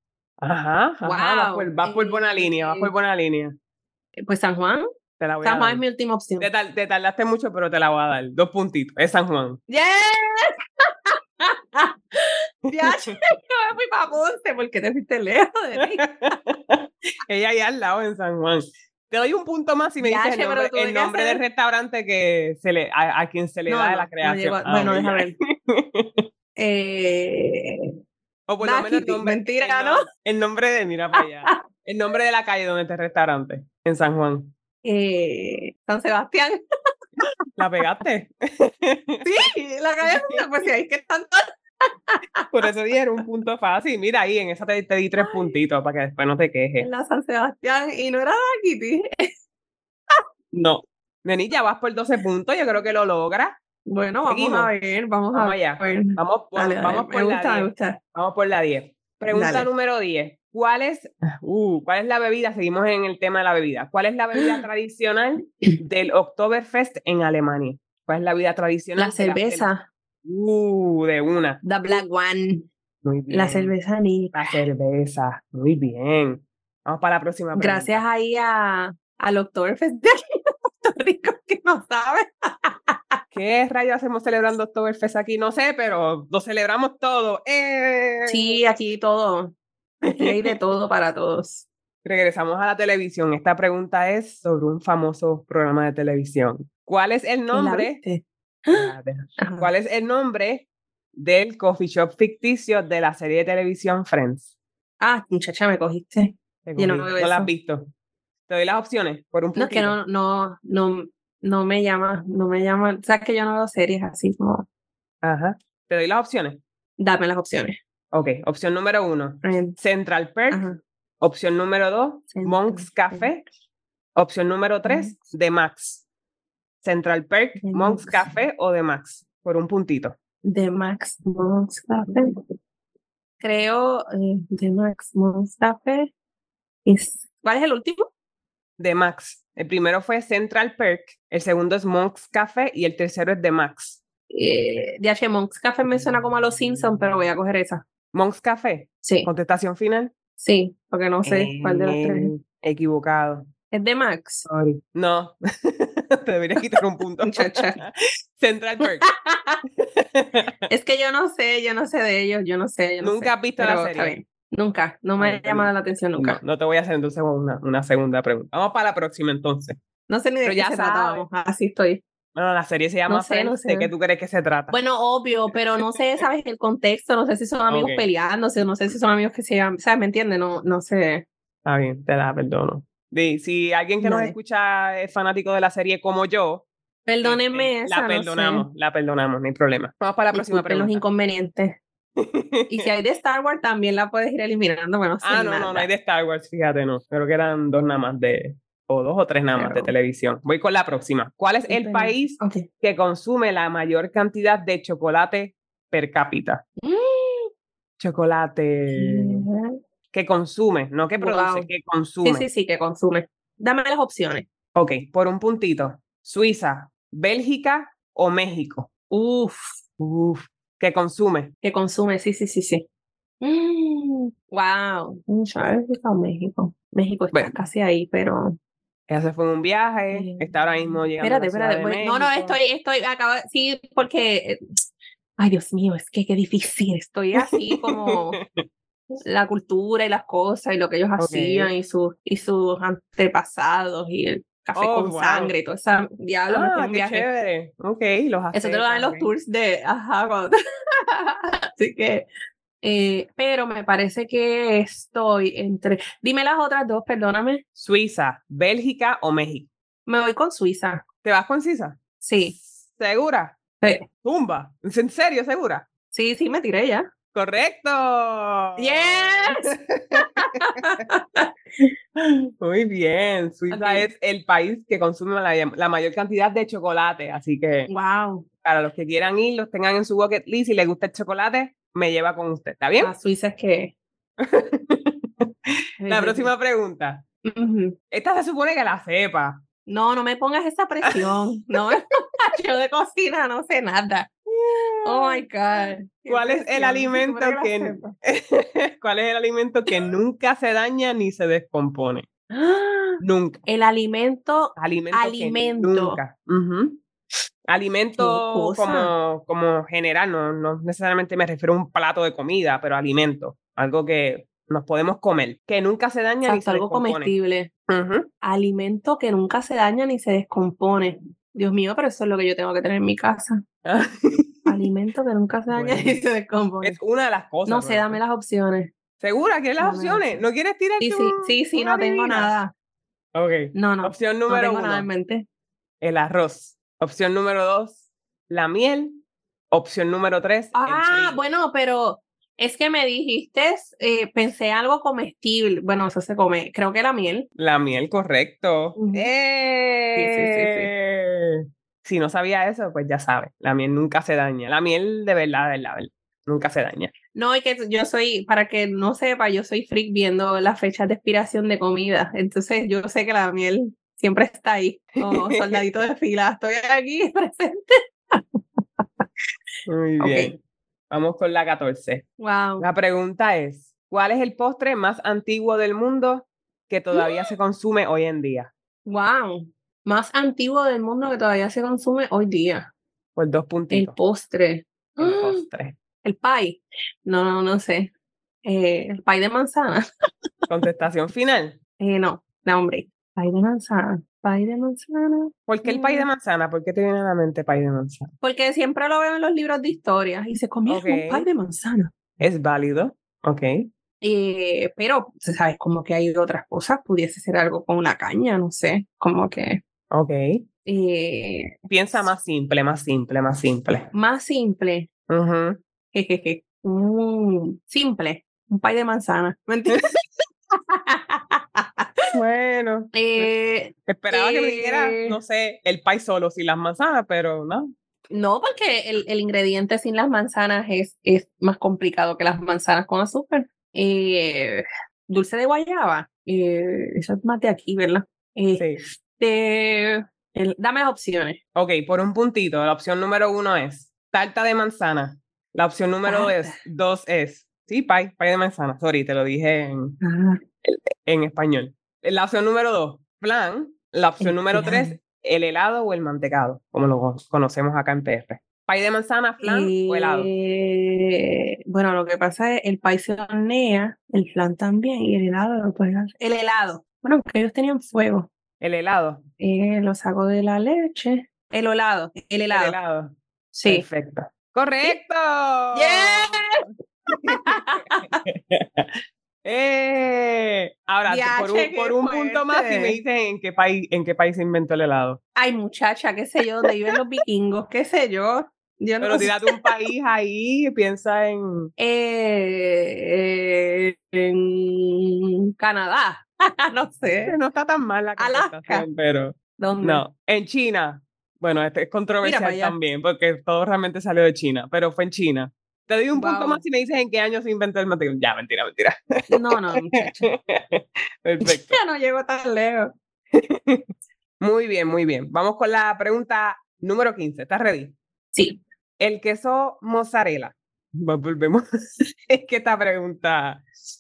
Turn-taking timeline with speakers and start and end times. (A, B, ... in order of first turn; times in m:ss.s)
0:00.4-0:03.6 A
0:01.0-0:02.9 B
0:04.2-0:04.9 B
0:05.2-0:05.8 A
0:05.4-0:06.5 B
0:06.4-0:09.6 A
0:09.7-0:16.4 B
0:12.7-0:13.2 A
0:15.8-0:26.3 A
0:20.0-0:21.4 B
0:23.7-0:25.4 B
0:26.6-0:27.9 B
0:28.5-0:34.5 A
0:28.6-0:30.1 B
0:34.8-0:36.6 B
0:37.6-0:39.3 A
0:39.2-0:42.5 B
0:40.0-0:40.5 A
0:42.5-0:46.9 A
0:45.2-0:45.6 B
0:46.8-0:49.3 B
0:50.5-0:53.6 A
0:53.9-0:58.0 B
0:54.2-0:54.7 A
0:55.3-1:09.7 A
0:59.3-0:59.7 B
1:09.0-1:09.9 B
1:10.2-1:11.6 A
1:11.6-1:12.7 B
1:13.0-1:13.7 A
1:13.3-1:14.6 B
1:14.3-1:18.0 A
1:17.6-1:23.2 B
1:23.3-1:28.6 A
1:28.2-1:31.6 B
1:30.1-1:30.6 A
1:32.0-1:38.0 A
1:37.5-1:39.7 B
1:38.7-1:44.5 A
1:45.0-1:47.5 B
1:46.6-1:47.9 A
1:48.5-1:50.0 A
1:49.6-1:54.6 B
1:55.2-1:56.6 A
1:57.0-1:57.8 B
1:58.1-2:00.7 A
1:59.4-1:59.8 B
2:00.5-2:00.8 B
2:01.2-2:03.4 A
2:02.3-2:03.3 B
2:04.2-2:06.0 A
2:04.8-2:05.2 B
2:06.8-2:10.2 A
2:07.6-2:08.3 B
2:10.4-2:12.4 B
2:13.4-2:16.1 B
2:16.8-2:18.1 B
2:18.8-2:24.0 A
2:24.3-2:27.8 B
2:28.1-2:30.1 A
2:29.0-2:29.3 B
2:30.4-2:32.3 B
2:31.2-2:33.5 A
2:33.7-2:34.5 B
2:34.5-2:39.1 A
2:37.2-2:37.8 B
2:38.8-2:39.6 B
2:39.8-2:40.5 A
2:40.7-2:46.4 B
2:43.0-2:44.2 A
2:45.2-2:49.8 A
2:50.1-2:52.0 B
2:50.4-2:51.3 A
2:52.4-2:54.8 A
2:53.1-2:53.9 B
2:54.7-3:01.3 B
2:57.7-2:58.1 A
3:01.6-3:06.7 A
3:04.0-3:04.4 B
3:07.1-3:08.7 B
3:07.2-3:11.0 A
3:10.3-3:11.8 B
3:12.2-3:12.9 A
3:12.7-3:15.9 B
3:15.2-3:26.6 A
3:19.6-3:19.9 B
3:21.7-3:22.7 B
3:26.8-3:27.5 B
3:28.0-3:29.5 A
3:28.9-3:29.8 B
3:30.1-3:32.5 A
3:31.2-3:31.7 B
3:32.2-3:34.5 B
3:34.8-3:38.9 A
3:39.1-3:39.8 B
3:40.0-3:41.5 A
3:41.6-3:42.8 B
3:43.4-3:48.6 B
3:47.3-3:47.6 A
3:49.1-3:52.6 A
3:50.1-3:54.6 B
3:55.4-3:58.4 B
3:57.4-3:58.6 A
3:59.3-4:07.2 B
4:01.2-4:01.7 A
4:04.8-4:05.5 A
4:06.5-4:09.3 A
4:08.5-4:10.5 B
4:11.1-4:12.3 B
4:12.8-4:17.6 B
4:17.8-4:19.7 A
4:20.1-4:21.0 B
4:21.2-4:23.6 A
4:22.2-4:22.6 B
4:24.2-4:25.9 A
4:26.1-4:27.1 B
4:27.3-4:30.9 A
4:28.8-4:31.5 B
4:32.2-4:37.9 A
4:33.7-4:34.1 B
4:37.9-4:38.5 B
4:38.6-4:43.1 A
4:43.0-4:43.9 B
4:44.4-4:47.2 A
4:46.0-4:46.5 B
4:47.4-4:48.0 B
4:48.1-4:49.6 A
4:49.9-4:54.3 B
4:51.1-4:51.3 A
4:54.5-5:02.3 A
4:55.0-4:58.1 B
5:02.5-5:06.2 B
5:03.2-5:03.6 A
5:04.8-5:07.0 A
5:07.7-5:17.3 A
5:08.2-5:09.1 B
5:16.4-5:17.7 B
5:17.9-5:18.3 A
5:18.4-5:23.6 B
5:23.8-5:24.8 A
5:24.7-5:27.0 B
5:25.7-5:26.2 A
5:26.8-5:28.2 A
5:27.7-5:28.9 B
5:29.2-5:32.5 A
5:29.8-5:30.4 B
5:31.0-5:32.7 B
5:33.3-5:35.1 A
5:33.7-5:35.4 B
5:36.0-5:41.5 A
5:40.7-5:47.5 B
5:47.6-5:57.1 A
5:49.0-5:49.3 B
5:50.2-5:50.9 B
5:57.3-6:09.3 B
6:05.2-6:05.8 A
6:09.9-6:10.6 A
6:10.2-6:10.5 B
6:11.1-6:12.3 A
6:12.4-6:12.9 B
6:12.8-6:18.7 A
6:17.1-6:17.5 B
6:19.1-6:22.9 B
6:23.4-6:24.2 A
6:23.9-6:25.7 B
6:25.2-6:26.0 A
6:26.2-6:28.1 B
6:28.6-6:30.0 B
6:30.7-6:31.8 A
6:32.0-6:36.3 B
6:35.7-6:38.3 A
6:38.4-6:42.1 B
6:40.9-6:41.5 A
6:42.4-6:43.9 A
6:44.2-6:49.8 B
6:50.1-6:50.6 A
6:50.8-6:51.8 B
6:51.9-6:54.1 A
6:54.1-6:55.1 B
6:55.3-6:55.8 A
6:56.1-7:00.0 B
7:00.7-7:02.1 B
7:02.3-7:03.5 A
7:03.1-7:05.4 B
7:04.1-7:07.9 A
7:08.3-7:21.6 B
7:18.8-7:19.0 A
7:21.8-7:30.2 A
7:26.3-7:26.8 B
7:30.2-7:30.6 B
7:30.8-7:40.5 A
7:34.4-7:35.2 B
7:39.6-7:48.5 B
7:48.8-7:49.4 A
7:49.6-7:53.0 B
7:52.7-7:53.3 A
7:53.7-7:54.0 B
7:53.9-7:56.8 A
7:55.9-7:56.8 B
7:57.4-7:59.1 A
7:57.5-7:58.4 B
7:59.6-8:05.4 A
8:01.3-8:03.2 B
8:05.6-8:09.8 B
8:09.2-8:11.9 A
8:12.0-8:17.6 B
8:17.4-8:32.0 A
8:18.4-8:19.1 B
8:19.8-8:20.2 B
8:22.4-8:23.0 B
8:26.3-8:26.8 B
8:29.5-8:30.5 B
8:31.6-8:33.2 B
8:33.5-8:34.1 A
8:34.6-8:38.2 A
8:38.5-8:38.8 B
8:39.2-8:41.8 A
8:42.5-8:43.9 A